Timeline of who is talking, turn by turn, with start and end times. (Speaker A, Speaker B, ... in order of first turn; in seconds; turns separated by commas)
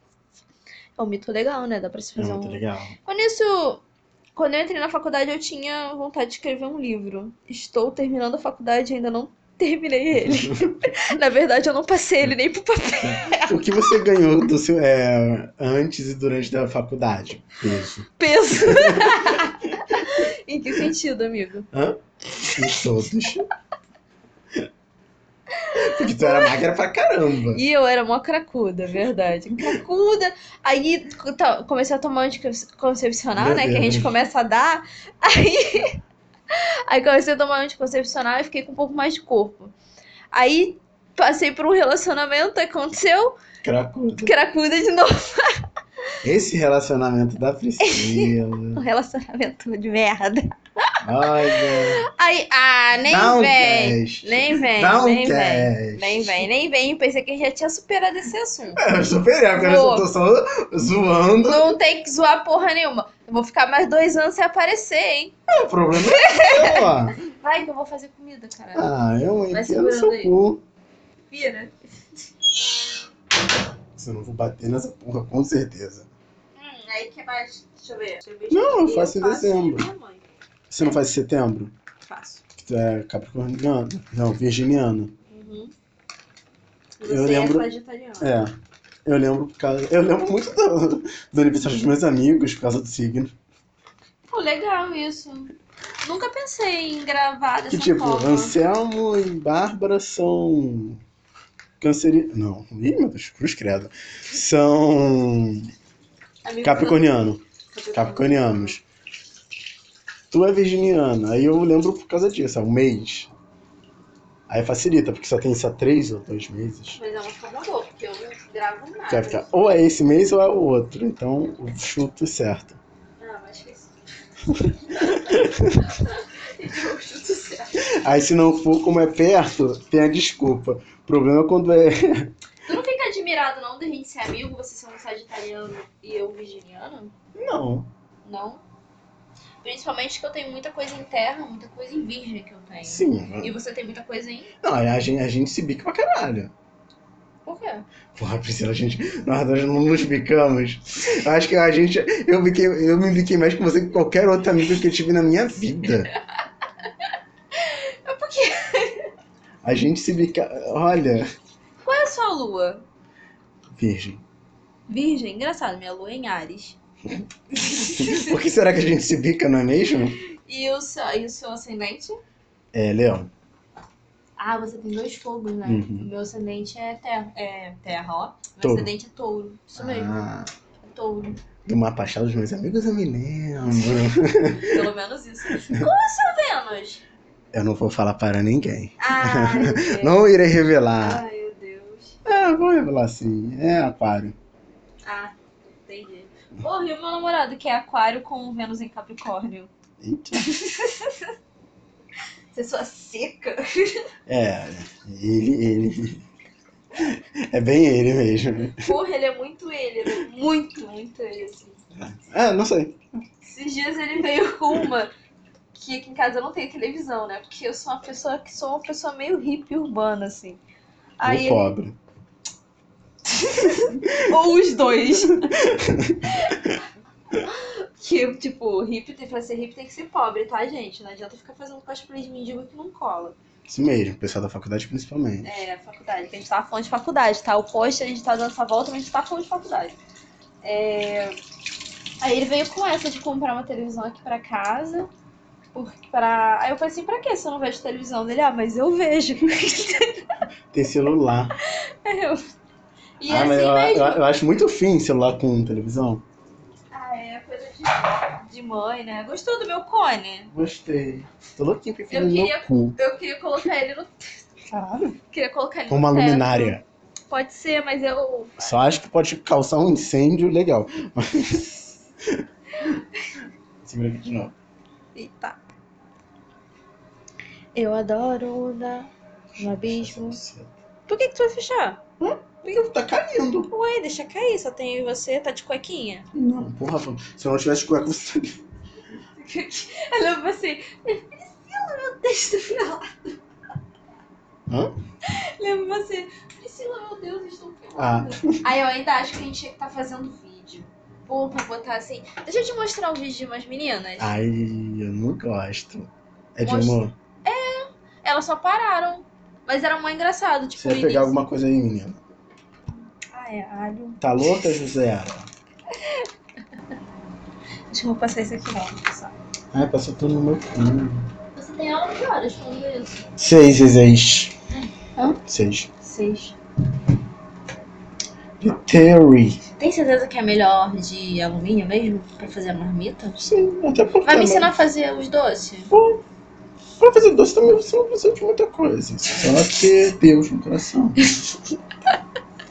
Speaker A: 1.0-3.8, Speaker B: 2.2-2.9, Speaker A: 4.4-13.6, Speaker B: 10.3-10.6, Speaker B: 13.1-19.4, Speaker A: 18.2-21.7, Speaker B: 21.7-22.0, Speaker A: 22.5-22.7, Speaker B: 22.5-23.5, Speaker A: 25.6-26.6, Speaker B: 25.7-27.6, Speaker A: 27.5-36.0, Speaker B: 33.4-34.1, Speaker A: 36.5-39.7, Speaker A: 40.3-43.4, Speaker B: 43.6-44.3, Speaker A: 44.2-45.6, Speaker B: 46.2-48.8, Speaker A: 47.8-50.5, Speaker B: 51.0-52.0, Speaker A: 51.7-58.8, Speaker B: 53.1-56.5, Speaker B: 58.8-61.8, Speaker A: 59.6-60.1, Speaker A: 61.5-65.3, Speaker B: 65.5-67.2, Speaker A: 65.9-68.9, Speaker B: 68.7-70.6, Speaker A: 69.5-70.3, Speaker A: 71.3-71.8, Speaker B: 74.0-76.1, Speaker A: 76.6-80.2, Speaker B: 78.5-79.9, Speaker B: 80.7-81.7, Speaker A: 82.0-82.4, Speaker B: 82.6-85.1, Speaker A: 85.3-85.7, Speaker A: 87.0-88.3, Speaker B: 87.0-87.7, Speaker B: 88.2-88.5, Speaker B: 89.0-93.3, Speaker A: 94.3-98.5, Speaker B: 97.7-101.0, Speaker B: 101.8-105.7, Speaker A: 106.5-107.1, Speaker B: 106.6-107.4, Speaker A: 107.7-108.7, Speaker B: 107.9-108.8, Speaker B: 110.3-113.3, Speaker B: 114.5-117.0, Speaker A: 117.0-119.6, Speaker B: 119.1-122.8, Speaker A: 123.2-124.0, Speaker B: 124.6-125.8, Speaker A: 125.0-125.2, Speaker A: 125.8-127.8, Speaker B: 127.9-132.3, Speaker A: 132.7-137.1, Speaker B: 137.4-137.9, Speaker A: 138.2-138.6, Speaker A: 139.6-144.5, Speaker B: 142.8-143.5, Speaker B: 144.6-146.5, Speaker A: 147.4-147.8, Speaker B: 148.2-156.1, Speaker A: 157.5-159.1, Speaker B: 159.6-161.3, Speaker A: 161.8-162.8, Speaker B: 163.8-164.2, Speaker A: 164.9-166.8, Speaker A: 167.5-168.3, Speaker B: 167.9-170.2, Speaker A: 170.4-172.2, Speaker B: 172.7-173.3, Speaker A: 174.4-180.2, Speaker B: 175.6-176.1, Speaker B: 178.6-178.9, Speaker B: 179.8-180.5, Speaker A: 180.8-181.4, Speaker B: 181.6-184.9, Speaker A: 184.6-187.0, Speaker B: 187.5-191.2, Speaker A: 189.0-190.2, Speaker A: 191.0-192.2, Speaker B: 192.2-194.3, Speaker A: 195.0-199.7, Speaker B: 200.0-200.5, Speaker A: 200.4-201.3, Speaker A: 202.5-204.1, Speaker B: 204.3-206.2, Speaker B: 207.0-208.8, Speaker A: 208.7-211.8, Speaker B: 211.9-213.0, Speaker A: 213.4-215.1, Speaker A: 215.7-220.6, Speaker A: 221.2-221.7, Speaker B: 221.2-221.9, Speaker A: 223.3-225.6, Speaker B: 225.3-226.8, Speaker A: 226.3-226.6, Speaker A: 227.3-233.4, Speaker B: 233.7-235.5, Speaker A: 235.4-239.9, Speaker A: 240.6-241.4, Speaker A: 242.2-245.1, Speaker A: 245.7-250.2, Speaker B: 250.7-251.6, Speaker A: 252.0-252.5, Speaker A: 253.2-254.2, Speaker B: 253.3-256.2, Speaker A: 256.9-260.5, Speaker B: 260.5-263.0, Speaker A: 262.1-264.2, Speaker B: 264.7-265.2, Speaker A: 265.3-266.8, Speaker B: 265.9-266.8, Speaker A: 267.3-268.8, Speaker B: 268.6-271.7, Speaker B: 273.8-274.5, Speaker A: 275.1-275.6, Speaker A: 277.7-280.4, Speaker B: 279.6-280.7, Speaker A: 281.1-282.0, Speaker B: 282.2-283.7, Speaker A: 283.7-286.3, Speaker B: 286.3-288.6, Speaker A: 289.4-293.4, Speaker A: 295.3-304.3, Speaker B: 297.9-298.6, Speaker B: 304.2-307.1, Speaker A: 306.6-311.4, Speaker B: 310.8-312.2, Speaker A: 313.3-314.2, Speaker B: 314.2-315.5, Speaker A: 315.9-316.3, Speaker A: 317.9-319.4, Speaker B: 319.7-321.3, Speaker A: 321.6-323.3, Speaker B: 323.4-324.6, Speaker B: 325.5-325.9, Speaker A: 326.0-326.6, Speaker B: 328.6-329.6, Speaker A: 329.8-333.4, Speaker B: 333.4-334.7, Speaker A: 334.2-335.9, Speaker B: 335.9-336.2, Speaker B: 337.0-341.2